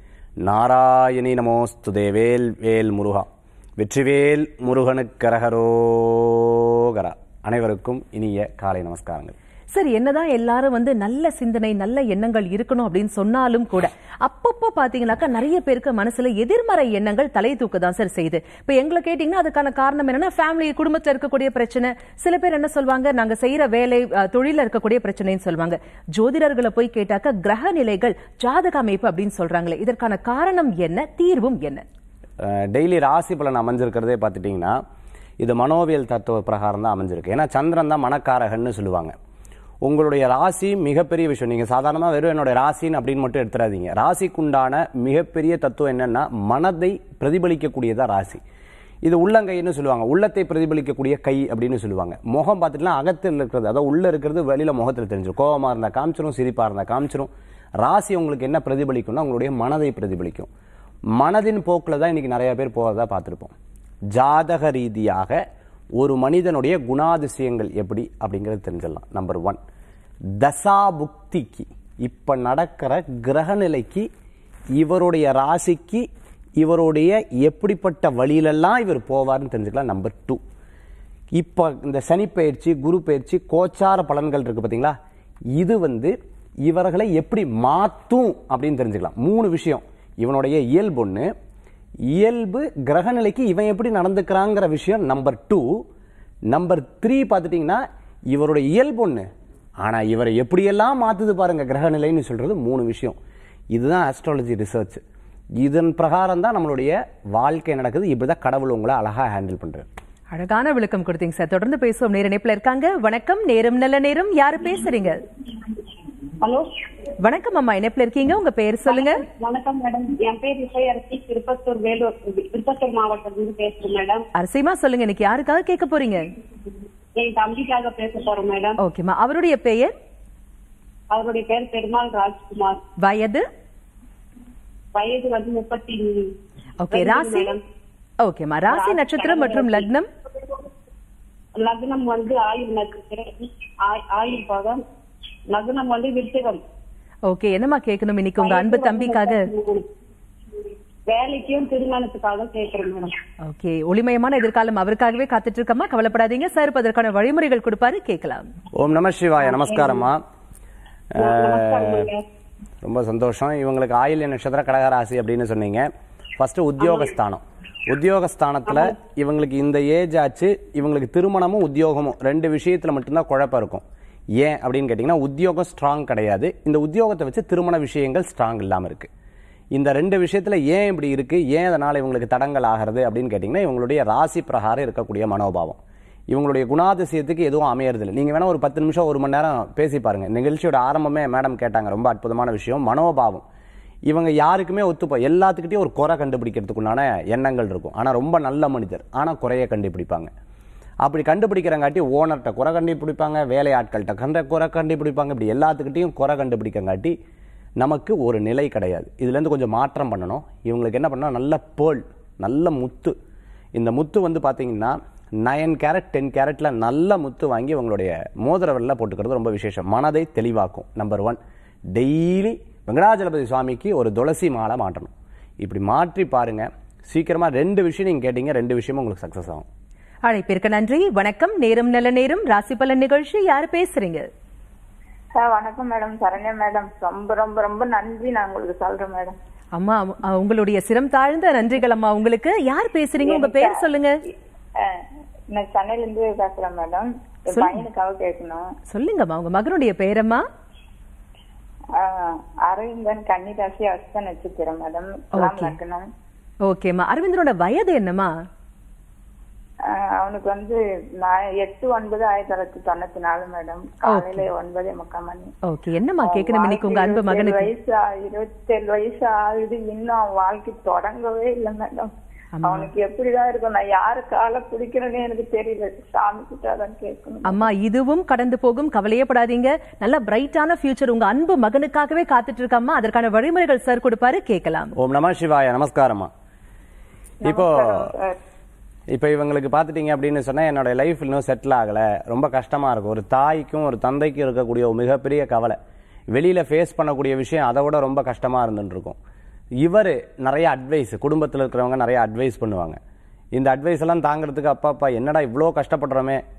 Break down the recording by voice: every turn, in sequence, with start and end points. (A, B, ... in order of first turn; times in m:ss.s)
0:00.4-0:03.3 A
0:03.8-0:09.3 A
0:09.7-0:31.8 B
0:32.4-0:34.8 A
0:35.4-0:39.1 A
0:39.8-0:48.4 A
0:49.0-1:00.5 A
1:01.2-1:03.5 A
1:04.1-1:05.4 A
1:06.0-1:09.6 A
1:10.4-1:14.1 A
1:14.8-1:16.1 A
1:16.6-1:20.4 A
1:21.4-1:25.0 A
1:25.6-1:26.1 A
1:26.7-1:31.3 A
1:32.1-1:35.8 A
1:36.5-1:39.3 A
1:39.8-1:43.2 A
1:43.7-1:45.0 A
1:45.6-1:49.9 A
1:50.3-1:55.2 B
1:56.4-1:56.7 C
1:57.2-1:59.2 B
1:58.9-2:04.2 C
2:04.4-2:06.2 B
2:07.2-2:08.8 C
2:08.8-2:09.9 B
2:11.1-2:12.8 C
2:13.0-2:13.4 B
2:14.9-2:16.4 C
2:16.8-2:17.6 B
2:16.9-2:17.6 C
2:18.2-2:20.1 B
2:18.7-2:19.9 C
2:21.6-2:24.8 C
2:25.5-2:26.6 C
2:27.3-2:29.4 B
2:28.4-2:29.8 C
2:31.1-2:33.2 C
2:33.4-2:38.4 B
2:38.8-2:40.2 A
2:39.4-2:40.0 C
2:41.2-2:42.3 C
2:41.2-2:42.0 A
2:42.8-2:53.8 A
2:54.4-2:59.1 A
2:59.8-3:05.8 A
3:06.3-3:13.4 A
3:14.1-3:20.3 A
3:21.0-3:27.2 A
3:27.8-3:33.1 A
3:33.8-3:41.4 A
3:41.9-3:49.7 A
3:50.2-3:54.3 B
3:55.4-3:59.4 D
3:59.8-4:04.1 B
4:03.2-4:03.8 D
4:05.5-4:08.7 D
4:07.6-4:07.8 B
4:08.9-4:10.4 B
4:12.0-4:16.1 D
4:15.4-4:15.8 B
4:16.7-4:18.3 B
4:19.9-4:25.5 D
4:24.1-4:24.4 B
4:25.7-4:27.7 B
4:26.2-4:32.1 D
4:32.6-4:32.9 B
4:32.6-4:37.6 D
4:37.5-4:44.9 B
4:45.0-4:46.3 A
4:47.4-4:48.4 D
4:47.5-4:48.1 A
4:49.1-4:55.8 A
4:56.3-4:59.2 A
4:59.8-5:03.0 A
5:03.5-5:06.4 A